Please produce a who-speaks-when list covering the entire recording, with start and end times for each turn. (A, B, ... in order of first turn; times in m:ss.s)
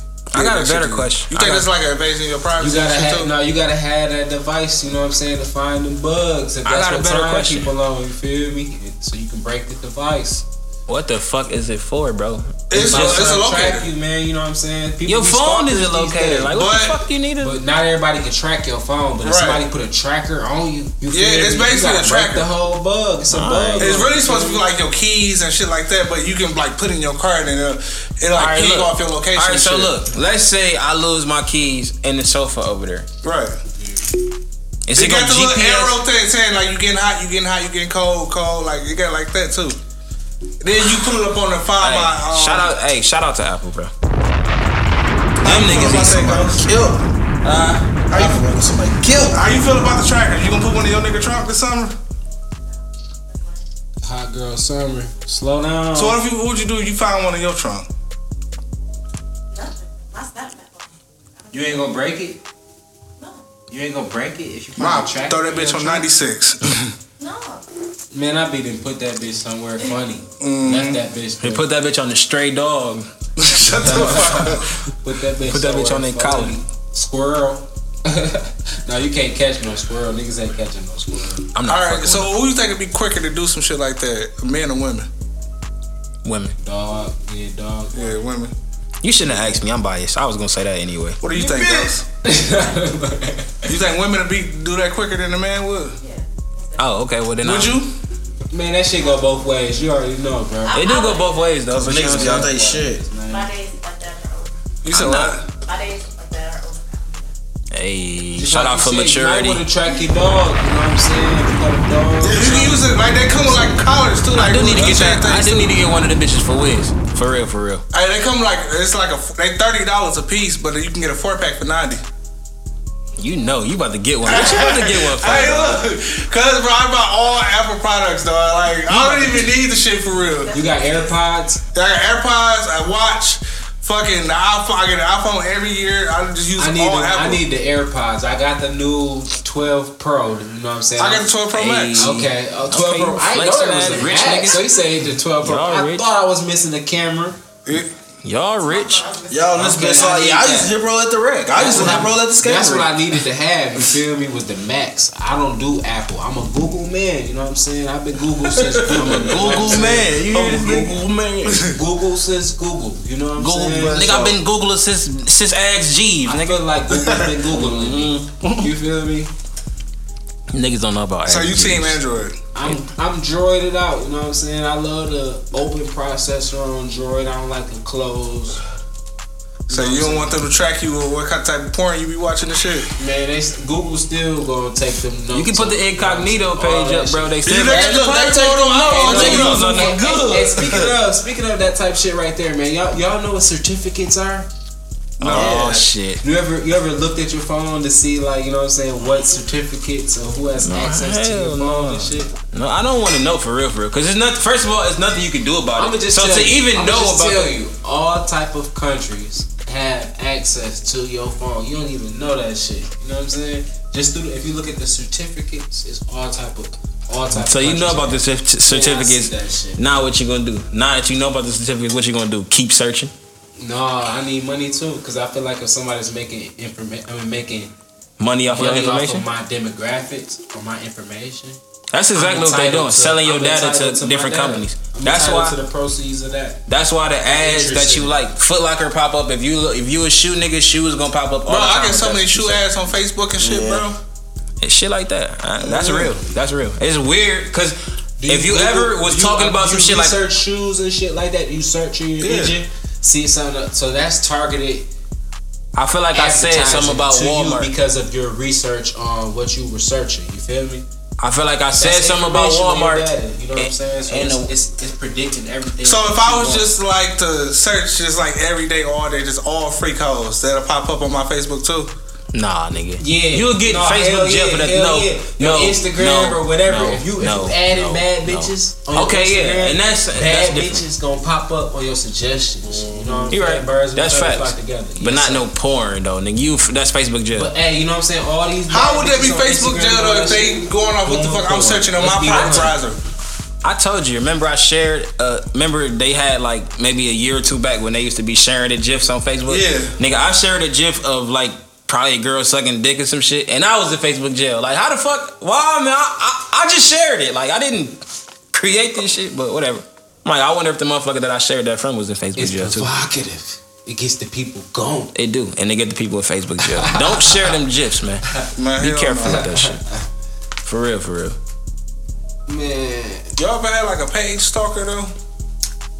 0:00.3-0:01.7 A
0:00.3-0:03.3 B
0:02.6-0:10.4 C
0:06.6-0:07.7 A
0:10.9-0:13.4 A
0:12.7-0:13.9 B
0:12.7-0:16.5 C
0:15.1-0:17.6 A
0:16.5-0:17.0 B
0:17.4-0:24.6 C
0:19.2-0:19.6 B
0:21.1-0:22.5 B
0:23.3-0:24.1 A
0:23.8-0:30.0 B
0:28.3-0:33.1 A
0:33.2-0:33.6 B
0:33.8-0:34.0 C
0:34.9-0:36.0 A
0:35.0-0:39.8 B
0:40.6-0:42.7 B
0:41.8-0:43.9 A
0:45.4-0:46.6 B
0:45.4-0:46.6 A
0:45.6-0:47.0 D
0:47.4-0:48.0 A
0:48.1-0:48.5 B
0:48.1-0:49.4 D
0:49.3-0:52.0 B
0:53.3-0:53.6 E
0:54.0-0:56.2 C
0:56.0-0:57.9 B
0:59.5-1:02.0 E
1:01.5-1:02.4 C
1:03.7-1:06.1 C
1:04.8-1:07.0 B
1:07.2-1:07.6 E
1:08.1-1:11.7 C
1:10.4-1:11.0 B
1:11.4-1:13.1 A
1:13.4-1:14.7 B
1:13.8-1:21.5 C
1:13.8-1:14.2 A
1:15.4-1:16.6 A
1:21.6-1:22.4 A
1:21.7-1:25.1 B
1:26.2-1:26.6 A
1:26.6-1:28.0 C
1:27.9-1:28.5 B
1:29.0-1:31.2 A
1:29.3-1:29.6 C
1:31.2-1:32.0 B
1:31.3-1:32.0 D
1:32.2-1:33.7 C
1:33.7-1:36.0 B
1:36.0-1:37.1 E
1:36.8-1:37.8 A
1:37.4-1:37.9 B
1:38.5-1:40.8 C
1:39.0-1:39.3 E
1:40.6-1:41.7 E
1:40.7-1:42.5 A
1:41.7-1:43.0 D
1:41.8-1:43.5 C
1:43.2-1:44.6 E
1:44.8-1:45.4 B
1:44.9-1:45.4 A
1:45.5-1:47.4 E
1:47.7-1:49.6 A
1:48.4-1:53.8 C
1:52.2-1:55.7 B
1:54.3-1:57.8 A
1:57.9-2:02.0 B
2:03.2-2:05.8 A
2:04.2-2:10.5 B
2:08.9-2:09.5 A
2:10.2-2:11.2 E
2:10.5-2:11.6 C
2:11.7-2:17.4 B
2:16.6-2:21.3 C
2:21.0-2:22.2 B
2:21.5-2:24.6 A
2:22.0-2:27.4 C
2:25.4-2:26.1 A
2:28.2-2:29.1 A
2:28.6-2:29.4 E
2:29.3-2:32.9 D
2:29.5-2:30.4 C
2:30.0-2:30.7 A
2:31.6-2:39.9 C
2:31.6-2:32.0 A
2:38.9-2:41.0 A
2:39.0-2:41.8 D
2:41.6-2:44.2 C
2:43.4-2:44.4 D
2:43.5-2:48.7 A
2:46.3-2:49.3 C
2:50.5-2:52.0 A
2:51.3-2:52.4 B
2:52.6-2:58.6 C
2:59.7-3:02.9 B
2:59.7-3:00.4 C
3:03.0-3:07.4 C
3:05.3-3:10.4 A
3:07.4-3:10.0 B
3:08.8-3:10.9 D
3:08.9-3:14.5 C
3:15.2-3:15.5 B
3:15.2-3:16.2 A
3:15.3-3:15.9 D
3:16.2-3:22.3 C
3:20.6-3:27.5 A
3:25.8-3:39.8 C
3:37.3-3:43.1 A
3:43.6-3:47.7 C
3:48.2-3:49.3 A
3:48.5-3:51.6 C
3:51.9-3:55.6 A
3:52.1-3:56.6 C
3:56.7-4:02.7 A
3:57.3-3:58.2 C
4:01.5-4:04.0 B
4:03.4-4:03.9 D
4:04.6-4:07.8 A
4:05.6-4:06.1 D
4:08.2-4:14.9 C
4:08.3-4:10.2 A
4:12.2-4:12.6 D
4:15.8-4:17.7 A
4:16.1-4:20.8 C
4:21.2-4:24.5 A
4:21.8-4:26.7 C
4:25.8-4:31.9 B
4:32.3-4:40.8 A
4:33.0-4:45.5 C
4:42.6-4:43.4 D
4:43.3-4:47.5 A
4:47.3-4:52.8 C
4:48.7-4:53.0 B
4:52.2-4:52.7 A
4:53.6-5:08.0 A
4:59.5-4:59.9 B
5:08.5-5:12.9 A
5:12.4-5:15.1 C
5:15.2-5:19.8 A
5:16.6-5:17.5 C
5:18.6-5:19.5 B
5:19.2-5:20.0 C
5:20.6-5:21.4 A
5:22.5-5:23.4 C
5:23.4-5:25.1 B